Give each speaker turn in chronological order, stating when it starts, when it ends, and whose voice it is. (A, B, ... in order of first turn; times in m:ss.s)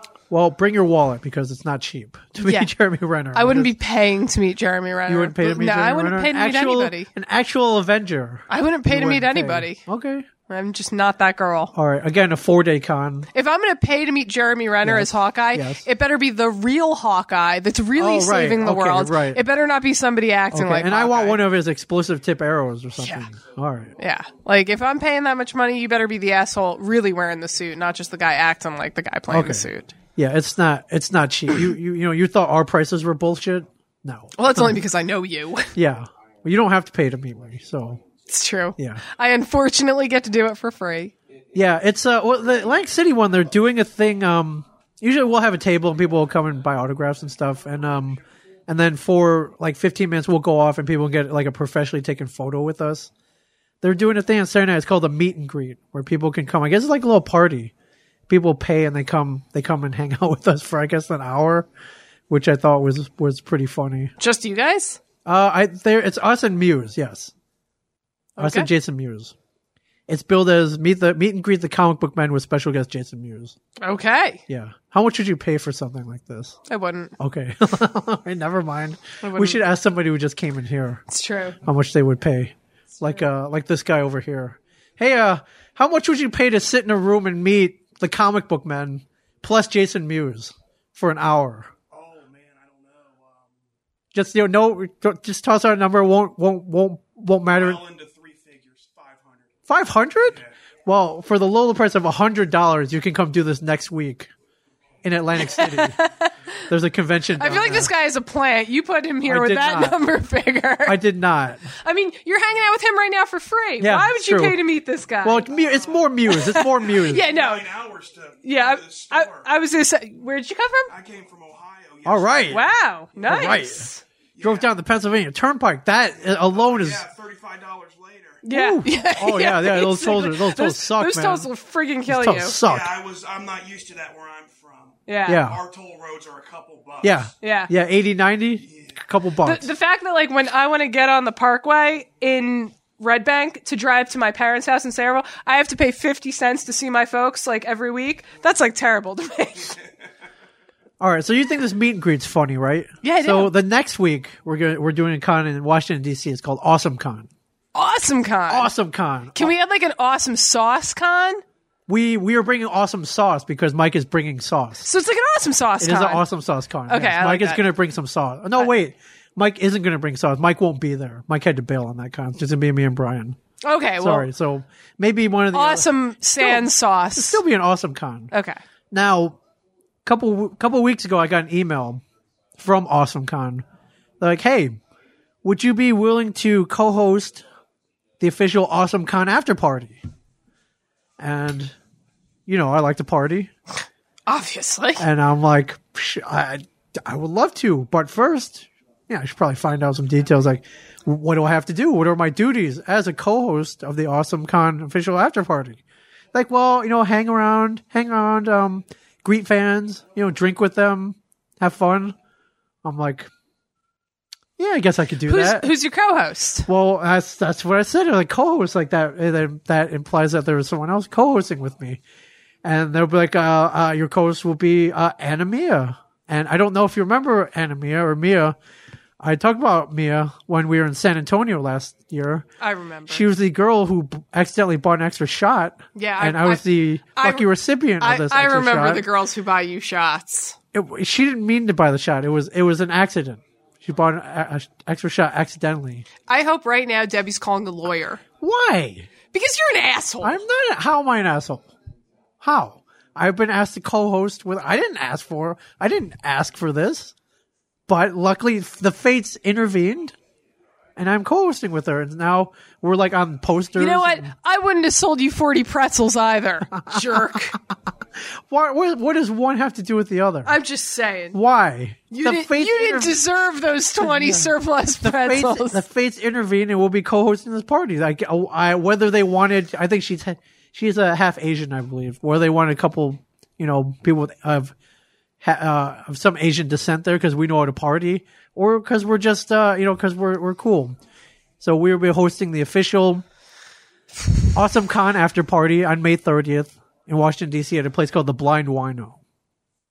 0:00.3-0:03.7 A
0:02.4-0:02.7 B
0:03.3-0:07.1 B
0:05.1-0:10.3 A
0:08.5-0:09.8 B
0:10.5-0:11.7 B
0:11.7-0:13.3 A
0:13.3-0:21.4 B
0:14.8-0:15.9 A
0:18.0-0:19.4 A
0:20.5-0:24.0 A
0:23.0-0:23.3 B
0:24.0-0:29.9 B
0:29.3-0:34.8 A
0:34.4-0:35.7 B
0:35.8-0:38.0 A
0:38.3-0:41.1 B
0:38.8-0:39.0 A
0:41.5-0:53.1 A
0:53.8-0:57.7 A
0:58.3-1:01.7 A
1:02.3-1:04.1 A
1:04.2-1:05.0 B
1:05.2-1:07.3 A
1:08.4-1:08.7 B
1:08.4-1:09.3 A
1:10.1-1:13.6 A
1:13.8-1:14.4 B
1:14.5-1:16.6 A
1:16.7-1:17.1 B
1:17.2-1:21.0 A
1:19.2-1:19.6 B
1:21.1-1:21.6 B
1:21.6-1:31.7 A
1:31.9-1:33.6 C
1:34.1-1:37.8 A
1:37.5-1:39.6 C
1:39.7-1:44.3 A
1:45.0-1:46.0 A
1:45.4-1:46.3 B
1:46.7-1:47.9 A
1:47.4-1:51.0 B
1:49.2-1:50.0 A
1:50.8-1:51.7 A
1:51.8-1:55.5 B
1:53.8-1:54.6 A
1:55.2-1:57.2 A
1:55.5-1:59.5 C
1:56.3-1:57.7 B
1:58.4-2:00.9 B
2:00.9-2:03.6 C
2:02.0-2:02.6 A
2:02.5-2:04.0 B
2:03.3-2:03.9 A
2:04.4-2:04.7 C
2:04.4-2:07.0 A
2:06.2-2:08.4 C
2:08.4-2:12.6 B
2:08.5-2:11.5 A
2:12.1-2:13.0 A
2:12.6-2:17.3 C
2:15.1-2:15.4 B
2:15.3-2:15.6 A
2:17.0-2:19.7 A
2:17.4-2:17.7 B
2:18.6-2:19.0 C
2:19.4-2:29.8 B
2:31.0-2:37.3 A
2:33.0-2:33.5 B
2:37.8-2:38.7 B
2:38.5-2:39.5 A
2:39.3-2:41.4 B
2:41.9-2:44.9 A
2:44.8-2:46.2 B
2:45.8-2:53.4 A
2:46.9-2:47.6 B
2:53.6-2:54.3 B
2:54.0-2:58.3 A
2:55.5-2:57.4 B
2:58.3-2:58.6 B
2:58.9-2:59.4 A
3:00.0-3:02.0 A
3:02.6-3:03.6 A
3:04.2-3:04.8 A
3:05.4-3:07.4 A
3:08.2-3:10.0 A
3:11.2-3:11.8 A
3:12.5-3:13.5 A
3:14.3-3:15.0 B
3:15.0-3:25.8 A
3:26.3-3:32.2 A
3:32.8-3:33.3 A
3:34.6-3:35.7 A
3:35.2-3:36.7 B
3:36.7-3:42.0 A
3:42.6-3:48.6 A
3:49.2-3:52.5 A
3:52.6-3:53.3 B
3:53.1-3:59.1 A
3:56.0-4:00.6 B
4:00.7-4:06.1 A
4:06.3-4:08.2 B
4:08.4-4:09.1 A
4:09.3-4:10.4 B
4:10.2-4:11.7 A
4:12.4-4:17.1 A
4:17.9-4:20.2 A
4:21.0-4:24.3 A
4:23.8-4:27.6 B
4:26.7-4:27.6 A
4:28.5-4:30.6 A
4:30.4-4:31.4 B
4:31.3-4:33.2 A
4:32.1-4:35.8 B
4:34.0-4:44.7 A
4:45.4-4:51.0 A
4:51.6-4:53.2 A
4:54.5-4:59.2 A